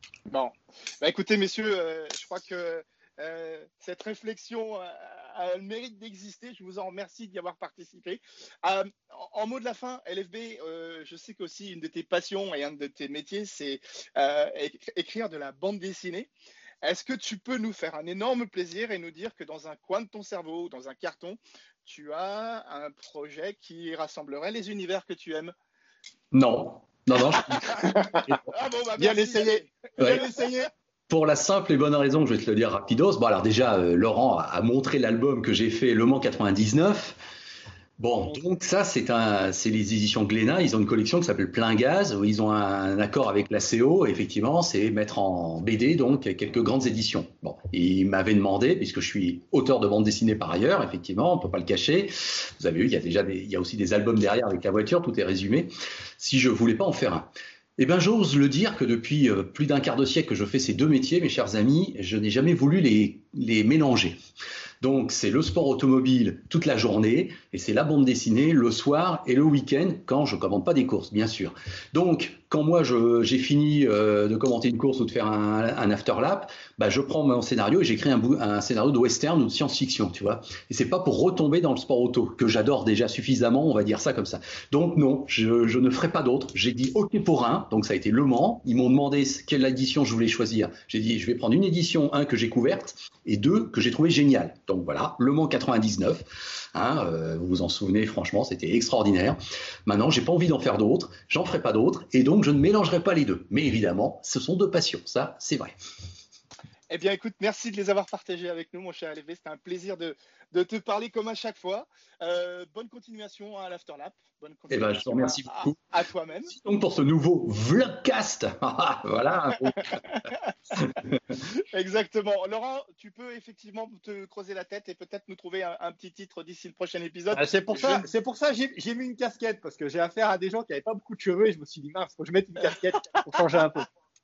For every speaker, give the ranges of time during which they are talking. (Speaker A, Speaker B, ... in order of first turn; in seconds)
Speaker A: 0.3-16.3, 16.8-25.5, 27.3-30.6, 106.9-116.5, 119.8-120.5, 121.7-128.1
Speaker B: 26.3-27.6, 30.0-30.2, 31.1-37.2, 38.0-64.2, 64.8-105.7, 114.7-115.8, 116.5-120.0
Speaker C: 27.8-28.3, 29.0-30.7, 127.3-133.9